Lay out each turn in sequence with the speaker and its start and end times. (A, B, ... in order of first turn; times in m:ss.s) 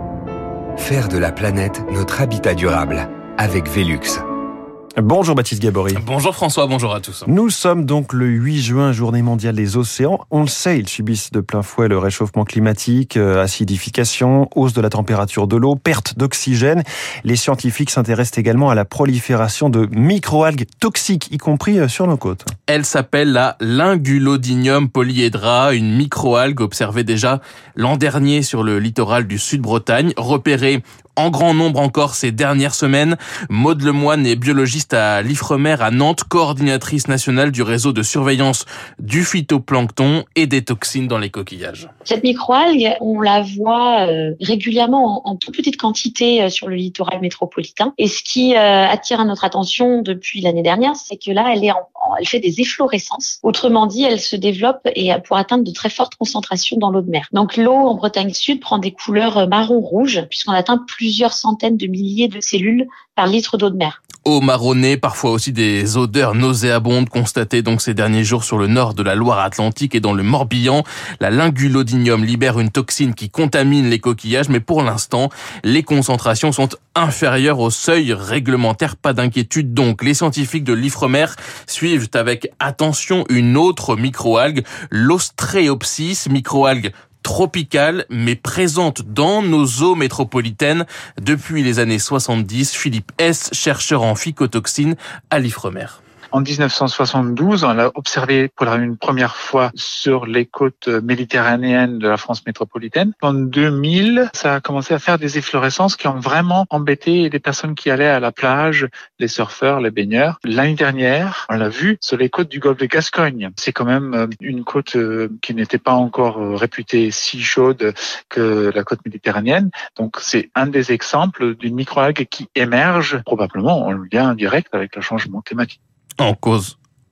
0:00.8-0:04.2 A
0:05.0-0:06.0 B
0:05.9-0:07.3 C
0:07.3-0:22.5 B
0:22.7-0:41.9 C
0:42.0-1:04.0 D
1:04.2-1:36.0 C
1:36.3-2:05.8 E
2:06.2-2:06.7 C